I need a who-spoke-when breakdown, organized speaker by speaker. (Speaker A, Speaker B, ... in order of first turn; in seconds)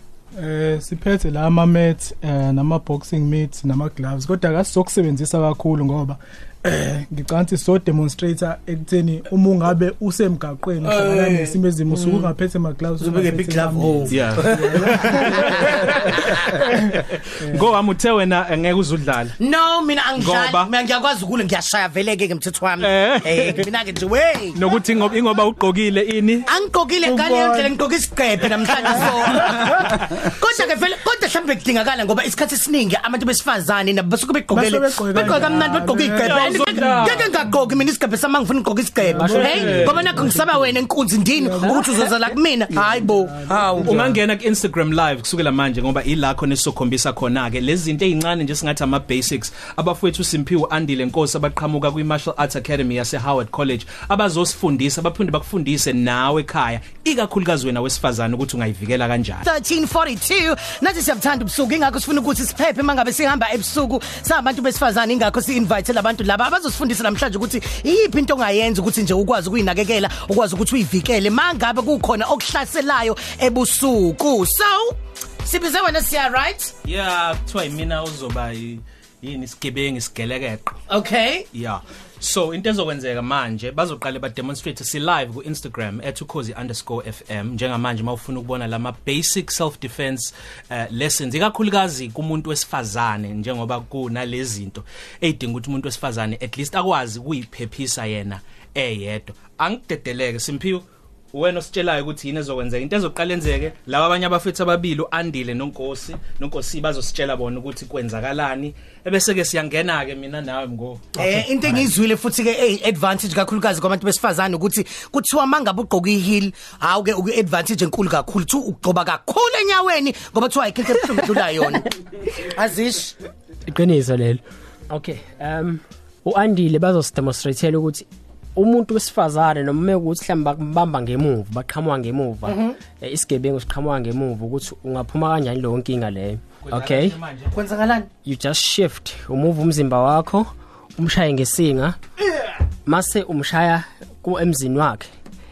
Speaker A: 0.3-17.7, 27.0-27.8, 28.8-29.9, 34.5-37.8, 39.0-42.1, 42.7-44.2
Speaker B: 10.8-12.3, 13.0-16.4, 19.4-24.6, 26.5-44.1, 59.4-76.7, 80.9-81.5, 111.1-123.2, 132.4-132.8, 137.5-138.1
Speaker C: 14.1-19.4, 20.2-20.7, 22.8-23.7, 24.5-26.5, 35.1-37.3, 39.3-40.2, 43.8-59.5, 76.8-80.8, 81.5-111.9, 136.6-137.5
Speaker D: 39.2-40.0, 41.6-41.9, 123.7-137.2, 138.2-142.0, 142.8-145.1